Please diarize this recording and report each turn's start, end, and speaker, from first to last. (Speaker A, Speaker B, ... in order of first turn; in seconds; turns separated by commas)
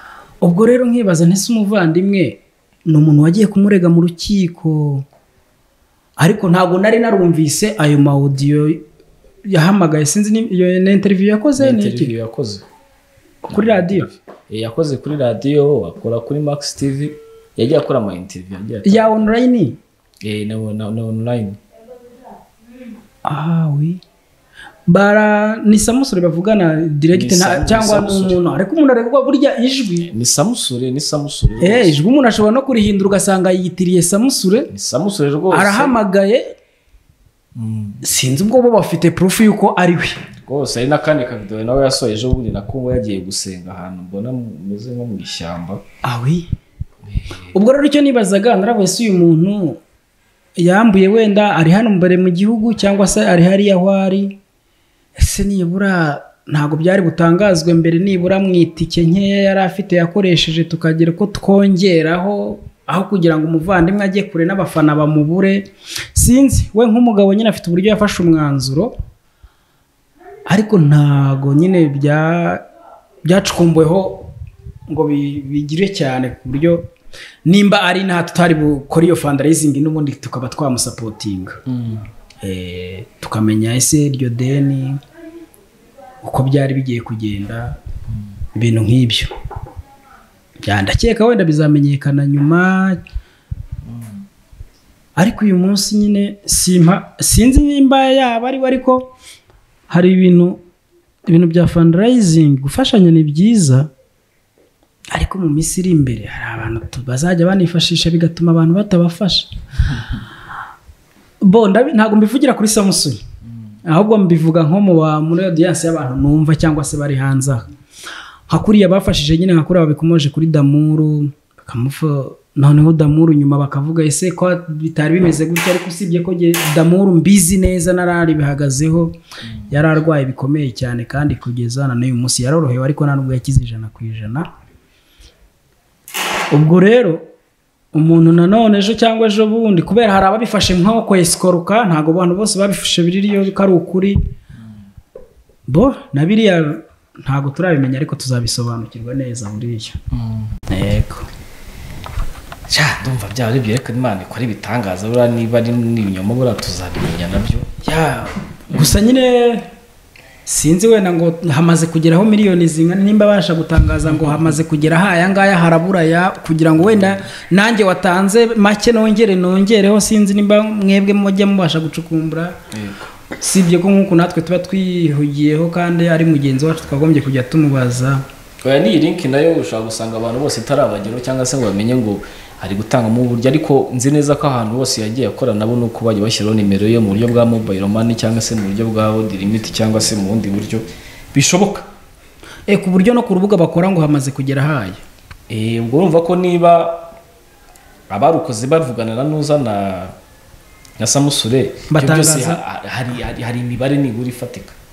Speaker A: 0.4-5.0, Speaker A: 6.2-8.9, Speaker A: 9.5-12.1, Speaker B: 11.6-12.7, Speaker A: 13.4-14.1, Speaker B: 13.5-19.1, Speaker A: 18.9-19.8, Speaker B: 20.2-21.6, Speaker A: 23.2-24.0, Speaker A: 24.9-30.1, Speaker B: 27.1-28.4, Speaker B: 30.0-31.9, Speaker A: 31.6-34.7, Speaker B: 34.7-36.0, Speaker A: 35.5-36.5, Speaker B: 37.5-38.0, Speaker A: 38.0-40.2, Speaker B: 40.4-45.8, Speaker A: 46.0-46.5, Speaker B: 47.0-47.5, Speaker A: 47.5-49.8, Speaker A: 50.6-54.4, Speaker A: 55.2-68.9, Speaker A: 70.5-72.7, Speaker A: 73.2-74.3, Speaker A: 74.9-76.9, Speaker A: 77.5-81.6, Speaker B: 81.7-82.1, Speaker A: 82.4-85.0, Speaker A: 86.2-87.8, Speaker A: 88.5-89.3, Speaker A: 90.6-93.0, Speaker B: 93.9-94.2, Speaker A: 95.2-99.1, Speaker A: 99.9-100.6, Speaker A: 101.3-103.9, Speaker A: 105.1-109.5, Speaker A: 111.4-113.2, Speaker A: 113.8-117.7, Speaker A: 118.5-129.2, Speaker A: 129.7-134.5, Speaker A: 136.5-137.3, Speaker A: 137.9-144.2, Speaker A: 145.7-150.0, Speaker B: 150.1-150.5, Speaker A: 150.7-151.3, Speaker B: 152.7-157.7, Speaker A: 157.8-159.7, Speaker A: 160.4-172.6, Speaker B: 172.7-173.1, Speaker A: 173.4-178.3, Speaker B: 178.6-191.8, Speaker A: 192.7-195.0, Speaker B: 195.5-197.1, Speaker B: 198.1-200.1, Speaker B: 201.0-204.8, Speaker A: 201.9-202.6